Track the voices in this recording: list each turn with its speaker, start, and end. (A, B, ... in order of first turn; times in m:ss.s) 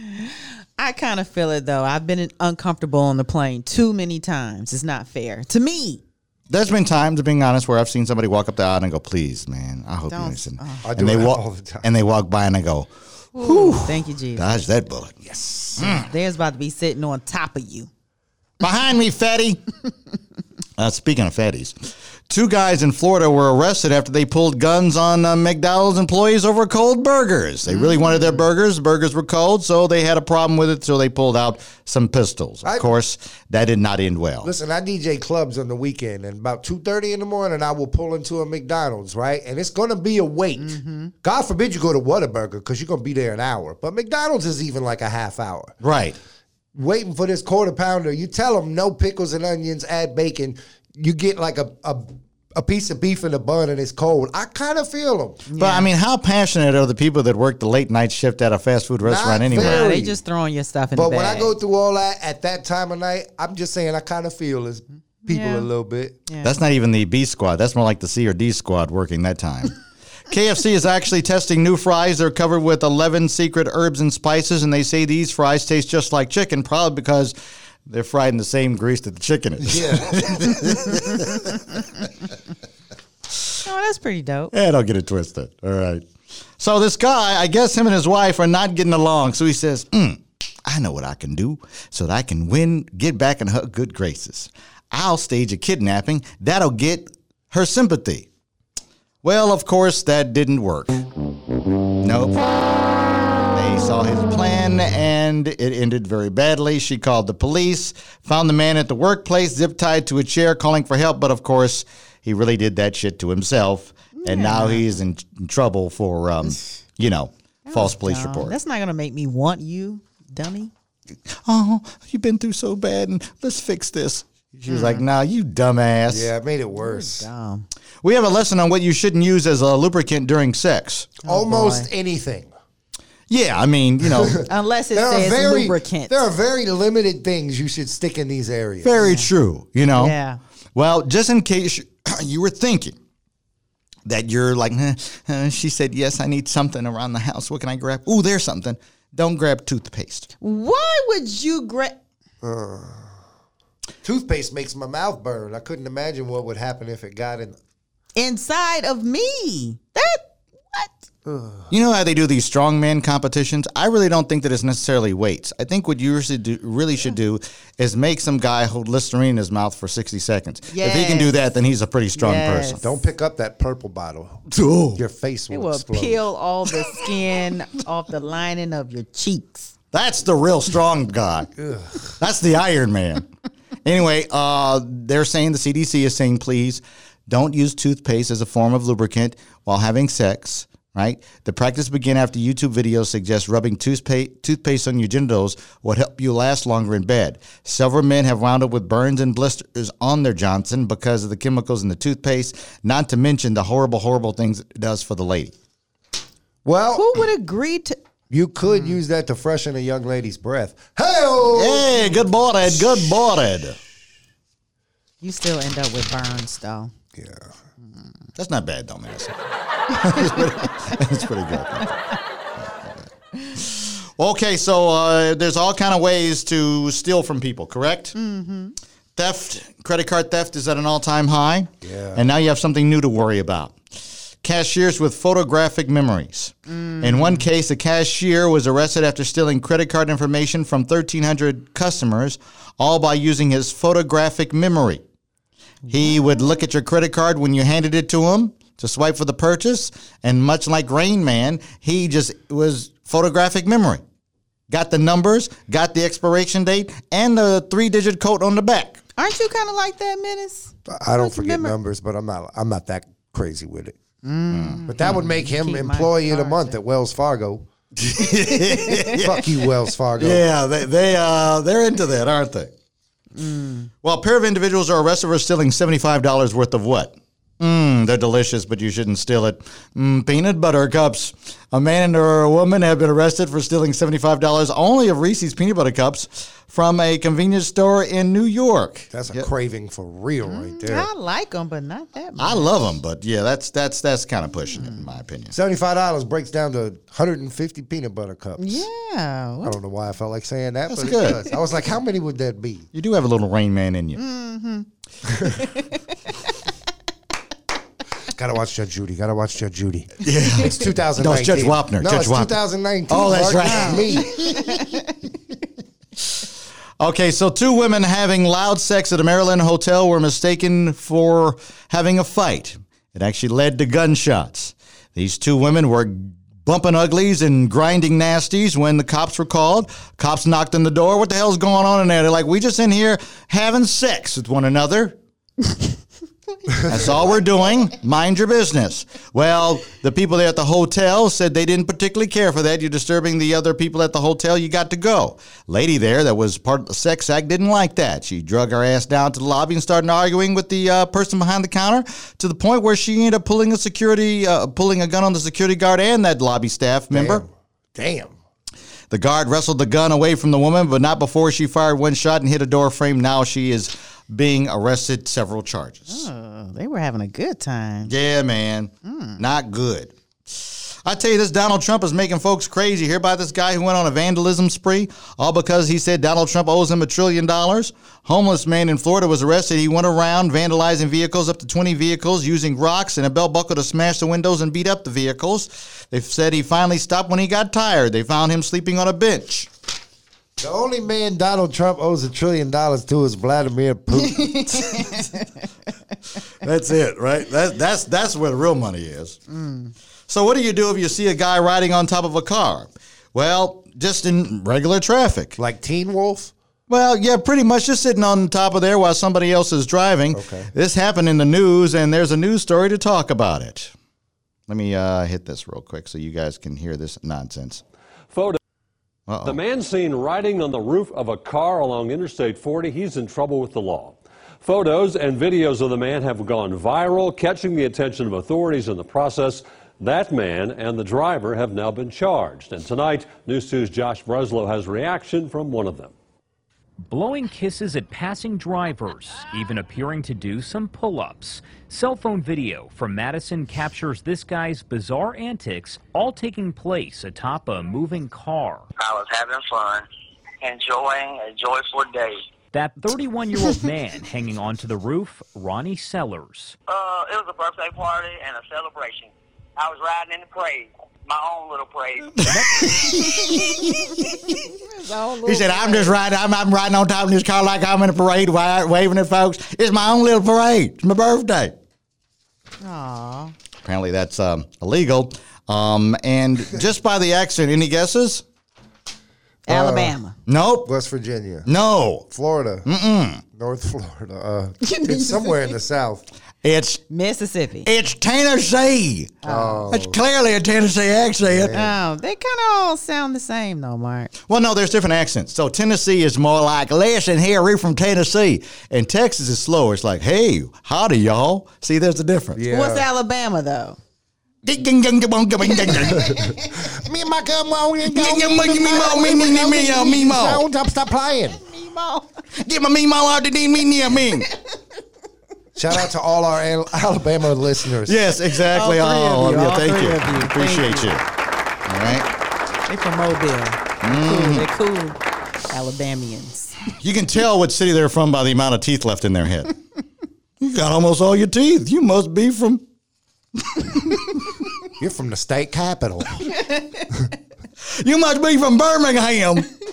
0:00.1-0:06.0 A
0:06.5-0:15.2 B
0:10.1-0:10.8 A
0:10.8-0:11.8 C
0:13.3-0:14.5 A
0:15.2-0:16.0 C
0:15.8-0:16.1 B
0:15.8-0:17.9 A
0:18.6-0:19.6 B
0:20.8-0:21.7 B
0:22.3-0:34.5 B
0:27.7-0:28.4 A
0:34.4-0:45.7 C
0:40.6-0:41.1 A
0:45.8-0:46.2 B
0:46.7-0:55.4 C
0:55.5-0:55.9 A
0:55.6-0:59.9 B
0:59.0-1:00.2 C
0:59.5-1:01.5 A
1:00.9-1:06.2 C
1:05.3-1:05.7 A
1:06.3-1:06.5 A
1:06.4-1:09.7 B
1:10.3-1:17.4 B
1:17.9-1:21.8 B
1:19.6-1:20.8 C
1:23.6-1:24.5 A
1:24.5-1:26.0 B
1:26.6-1:38.3 B
1:39.2-1:41.1 B
1:42.0-1:42.4 B
1:43.5-1:58.6 B
1:54.2-1:54.9 A
1:57.6-2:00.7 A
2:01.3-2:06.3 B
2:04.7-2:05.0 A
2:06.1-2:07.3 C
2:06.7-2:07.6 A
2:08.0-2:11.1 B
2:11.2-2:11.9 A
2:11.2-2:12.5 C
2:13.3-2:14.4 B
2:14.0-2:18.9 C
2:14.5-2:16.2 A
2:18.8-2:20.1 B
2:19.0-2:19.3 A
2:20.0-2:20.4 A
2:20.7-2:23.0 B
2:24.0-2:30.3 B
2:30.4-2:32.0 A
2:32.4-2:33.1 C
2:34.0-2:37.6 C
2:38.1-2:41.0 A
2:41.2-2:41.7 C
2:41.7-2:52.8 B
2:50.7-2:51.4 A
2:52.2-2:52.8 A
2:52.8-2:54.4 C
2:54.5-2:55.0 B
2:54.9-2:56.2 C
2:55.5-2:59.7 A
2:59.9-3:01.5 B
3:01.6-3:02.1 C
3:02.2-3:03.3 B
3:03.8-3:25.5 B
3:26.6-3:27.2 C
3:26.9-3:28.0 A
3:28.3-3:32.1 C
3:28.6-3:29.0 A
3:31.5-3:33.8 B
3:35.2-3:36.9 A
3:37.2-3:37.5 C
3:38.4-3:39.4 B
3:39.9-3:42.1 B
3:42.6-3:43.0 B
3:43.6-3:48.1 B
3:48.1-3:48.8 A
3:49.2-3:53.8 B
3:51.8-3:52.2 C
3:54.4-4:05.0 B
3:56.7-3:57.5 A
4:05.9-4:06.2 A
4:05.9-4:14.0 B
4:14.7-4:19.0 B
4:19.2-4:21.7 A
4:20.9-4:24.0 C
4:24.2-4:26.8 A
4:24.5-4:24.8 B
4:24.9-4:27.7 C
4:28.0-4:29.6 B
4:28.5-4:29.2 A
4:29.0-4:30.4 C
4:30.2-4:32.7 B
4:33.3-4:33.9 A
4:34.0-4:49.5 B
4:49.1-4:51.1 C
4:50.4-4:52.7 A
4:52.4-4:55.5 B
4:55.5-4:58.8 C
4:58.6-4:59.8 A
4:59.6-5:02.8 C
5:00.9-5:01.4 B
5:02.9-5:04.2 B
5:04.2-5:04.9 A
5:05.5-5:05.9 A
5:08.3-5:14.5 C
5:10.2-5:14.6 B
5:13.6-5:15.0 A
5:17.0-5:35.2 B
5:36.8-5:57.4 B
5:57.1-5:58.3 C
5:59.1-6:06.3 B
6:06.1-6:08.1 A
6:08.0-6:29.7 B
6:09.0-6:09.4 A
6:30.6-6:34.9 C
6:34.5-6:35.4 A
6:36.6-6:39.4 B
6:39.5-6:39.9 A
6:40.3-6:45.6 B
6:45.6-6:46.5 C
6:46.9-6:53.9 B
6:50.3-6:50.7 C
6:54.7-6:57.8 B
6:58.3-6:58.6 D
6:59.3-6:59.6 B
6:59.4-7:16.1 D
7:17.1-7:28.9 E
7:29.0-7:30.1 F
7:30.6-7:32.4 F
7:32.7-7:36.8 E
7:36.9-7:42.4 F
7:42.4-7:44.6 B
7:42.5-7:42.9 E
7:44.4-7:46.2 A
7:45.4-7:51.8 B
7:52.8-7:53.5 A
7:53.8-7:58.4 B
7:59.7-8:00.1 C
7:59.7-8:00.3 A
8:00.5-8:00.9 B
8:00.8-8:01.7 C
8:01.6-8:02.3 B
8:02.3-8:02.9 C
8:02.8-8:03.4 B
8:03.5-8:06.2 C
8:04.9-8:05.6 A
8:06.6-8:07.0 B
8:07.1-8:07.9 A
8:07.8-8:11.8 B
8:09.4-8:09.9 A
8:09.4-8:10.2 C
8:11.4-8:12.0 C
8:11.7-8:14.3 A
8:14.5-8:22.6 B
8:22.5-8:23.1 C
8:22.7-8:24.0 A
8:24.6-8:26.5 B
8:25.9-8:31.6 C
8:28.0-8:30.6 B
8:31.6-8:32.3 A
8:32.6-8:34.5 B
8:35.8-8:38.2 C
8:38.0-8:41.2 B
8:38.7-8:41.1 A
8:41.8-8:42.3 B
8:42.9-8:45.2 A
8:44.0-8:44.7 B
8:45.7-8:46.8 A
8:46.9-8:49.8 B
8:50.6-8:52.8 B
8:53.6-8:54.5 B
8:55.0-8:56.5 C
8:57.8-8:59.7 B